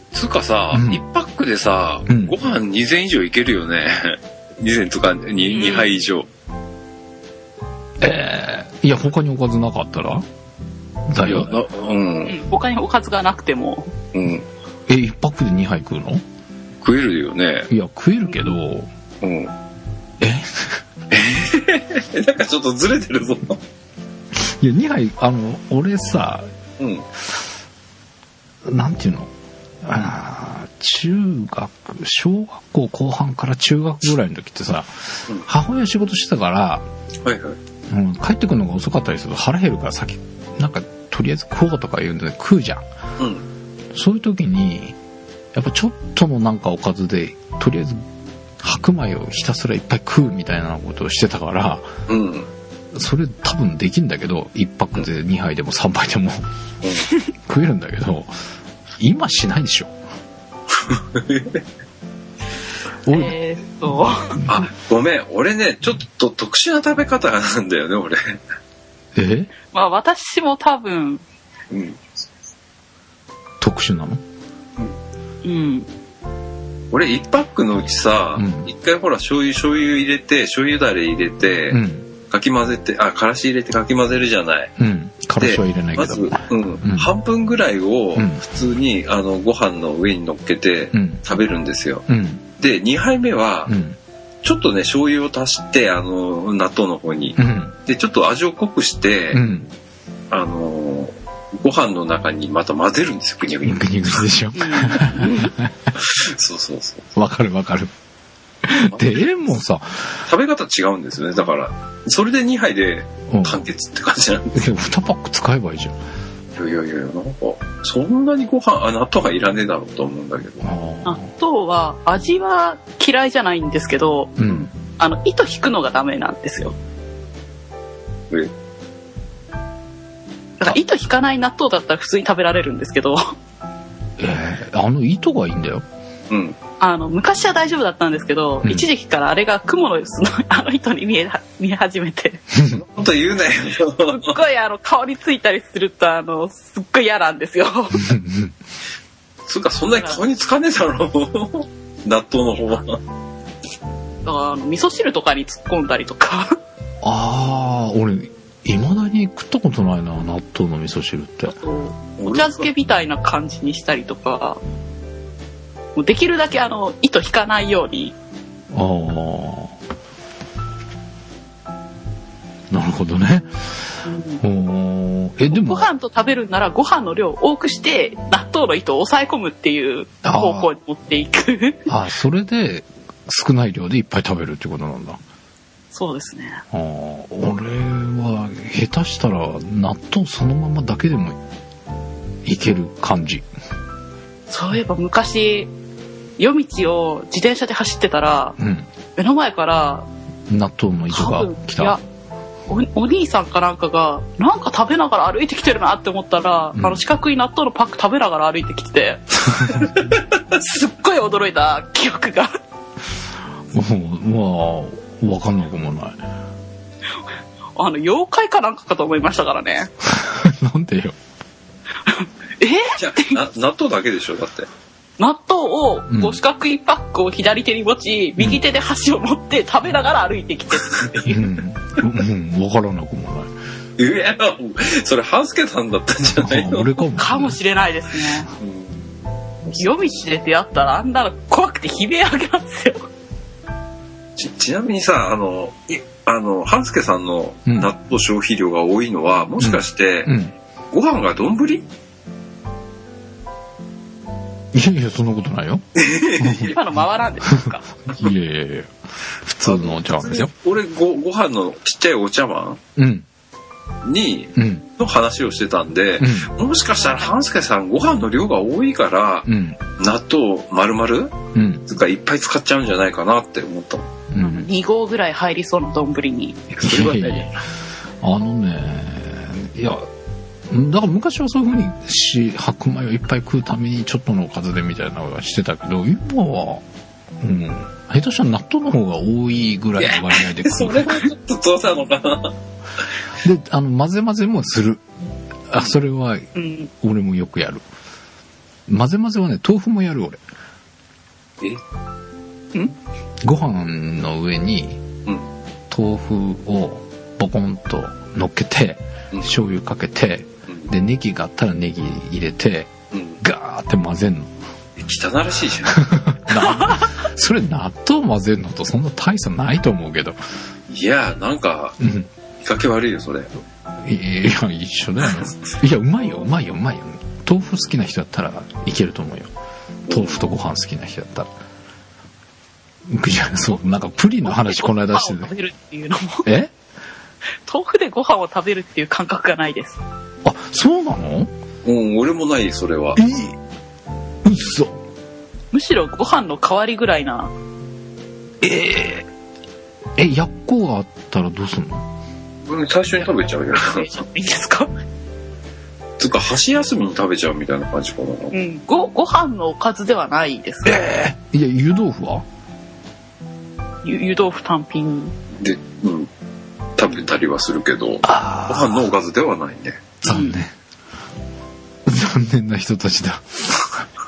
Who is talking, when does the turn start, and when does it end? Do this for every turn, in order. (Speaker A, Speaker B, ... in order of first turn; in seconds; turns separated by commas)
Speaker A: 0.1-6.3, Speaker B: 0.7-1.0, Speaker B: 2.1-2.3, Speaker C: 5.4-5.9, Speaker B: 8.0-10.3, Speaker B: 11.1-11.5, Speaker A: 11.2-12.4, Speaker C: 12.3-13.9, Speaker A: 14.1-14.5, Speaker B: 14.9-16.2, Speaker A: 16.8-17.7, Speaker B: 17.7-18.9, Speaker A: 19.2-19.5, Speaker B: 20.2-20.8, Speaker A: 21.1-23.6, Speaker B: 24.3-26.5, Speaker A: 26.8-27.1, Speaker B: 28.6-29.3, Speaker B: 29.8-36.9, Speaker A: 37.2-37.6, Speaker B: 37.9-42.9, Speaker A: 43.2-43.5, Speaker B: 43.9-45.0, Speaker B: 45.5-48.0, Speaker B: 48.6-51.9, Speaker A: 52.1-52.5, Speaker B: 52.9-56.4, Speaker B: 57.4-58.3, Speaker B: 59.0-60.0, Speaker A: 60.7-61.6, Speaker B: 63.0-63.4, Speaker C: 63.1-64.3, Speaker B: 64.4-64.7, Speaker A: 64.5-68.4, Speaker B: 69.2-69.5, Speaker C: 69.7-71.2, Speaker A: 71.7-72.0, Speaker B: 73.6-74.2, Speaker C: 75.4-75.9, Speaker A: 76.9-84.7, Speaker B: 78.4-78.7, Speaker B: 81.7-82.1, Speaker B: 84.8-87.1, Speaker A: 85.4-92.1, Speaker B: 88.2-88.4, Speaker B: 90.9-91.2, Speaker B: 92.1-92.4, Speaker A: 92.6-93.7, Speaker B: 93.7-94.0, Speaker A: 94.4-99.4, Speaker B: 97.4-97.8, Speaker B: 99.3-99.7, Speaker A: 100.3-104.2, Speaker B: 103.6-105.9, Speaker C: 104.6-105.5, Speaker A: 106.0-107.1, Speaker B: 107.2-107.9, Speaker B: 108.6-110.3, Speaker A: 108.8-109.3, Speaker A: 110.3-114.6, Speaker B: 113.3-113.7, Speaker B: 114.5-116.0, Speaker A: 116.6-120.7, Speaker B: 120.6-121.3, Speaker C: 121.0-124.3, Speaker B: 124.4-124.7, Speaker C: 125.0-126.8, Speaker C: 130.6-133.3, Speaker B: 134.2-135.8, Speaker A: 136.3-136.6, Speaker C: 136.8-142.4, Speaker B: 142.5-142.8, Speaker A: 142.7-144.3, Speaker C: 144.0-148.1, Speaker B: 147.9-148.6, Speaker A: 149.5-153.0, Speaker C: 154.2-156.6, Speaker B: 157.0-161.6, Speaker C: 161.6-164.6, Speaker A: 162.2-162.7, Speaker C: 166.0-168.1, Speaker B: 168.7-169.8, Speaker B: 172.7-173.5, Speaker C: 174.1-174.4, Speaker B: 174.4-175.9, Speaker C: 175.5-181.9, Speaker B: 180.2-180.7, Speaker B: 181.9-185.2, Speaker C: 185.9-186.6, Speaker B: 186.7-191.4, Speaker B: 192.4-193.5, Speaker C: 194.5-195.7, Speaker C: 196.4-198.6, Speaker B: 198.6-198.9, Speaker C: 199.2-200.1, Speaker B: 200.5-202.0, Speaker C: 201.1-202.0, Speaker C: 202.7-209.9, Speaker B: 206.7-207.0, Speaker C: 210.5-212.6, Speaker B: 213.7-216.2, Speaker C: 217.8-219.9, Speaker B: 220.0-221.2, Speaker C: 222.1-223.4, Speaker A: 223.0-224.7, Speaker C: 225.2-231.4, Speaker B: 226.1-226.4, Speaker B: 231.3-233.5, Speaker A: 234.0-236.9, Speaker B: 236.3-237.6, Speaker C: 237.2-238.5, Speaker A: 238.6-239.0, Speaker C: 239.8-243.1, Speaker A: 244.4-250.3, Speaker B: 247.7-247.9, Speaker B: 249.6-250.6, Speaker A: 250.9-251.9, Speaker B: 254.7-255.8, Speaker A: 256.0-256.8, Speaker B: 256.4-256.8, Speaker C: 256.6-257.9, Speaker B: 257.5-260.5, Speaker A: 259.6-262.8, Speaker B: 263.0-263.3, Speaker A: 264.0-271.4, Speaker B: 264.6-264.9, Speaker B: 266.2-266.5, Speaker B: 269.5-269.8, Speaker B: 271.5-271.9, Speaker A: 271.9-274.1, Speaker B: 274.3-274.7, Speaker C: 274.4-276.7, Speaker A: 276.7-277.6, Speaker B: 276.8-277.5, Speaker B: 278.2-280.1, Speaker B: 280.7-286.9, Speaker B: 287.4-291.3, Speaker A: 290.0-292.6, Speaker B: 293.4-295.0, Speaker B: 295.7-296.5, Speaker C: 296.6-296.9, Speaker B: 297.0-297.8, Speaker B: 298.9-300.4, Speaker B: 303.4-305.0, Speaker B: 305.9-314.5, Speaker A: 313.1-313.4, Speaker A: 315.0-316.1, Speaker B: 315.9-320.4, Speaker A: 320.9-322.0, Speaker B: 322.0-322.3, Speaker A: 322.6-323.5, Speaker B: 324.0-329.5, Speaker A: 325.3-325.8, Speaker A: 330.1-330.4, Speaker B: 330.1-331.5, Speaker B: 333.1-335.5, Speaker C: 334.5-336.5, Speaker B: 336.4-336.7, Speaker C: 337.7-340.0, Speaker B: 340.4-341.5, Speaker A: 341.9-343.2, Speaker B: 343.1-343.6, Speaker B: 344.4-345.0, Speaker C: 345.7-347.5, Speaker B: 348.6-349.3, Speaker B: 350.2-352.1, Speaker A: 352.7-354.1, Speaker C: 353.9-354.9, Speaker A: 356.2-358.5, Speaker C: 358.5-361.1, Speaker B: 360.9-362.4, Speaker C: 364.0-365.4, Speaker A: 365.6-366.3, Speaker A: 367.0-370.0, Speaker B: 368.2-369.1, Speaker B: 370.2-370.7, Speaker C: 370.2-370.6, Speaker B: 372.1-373.9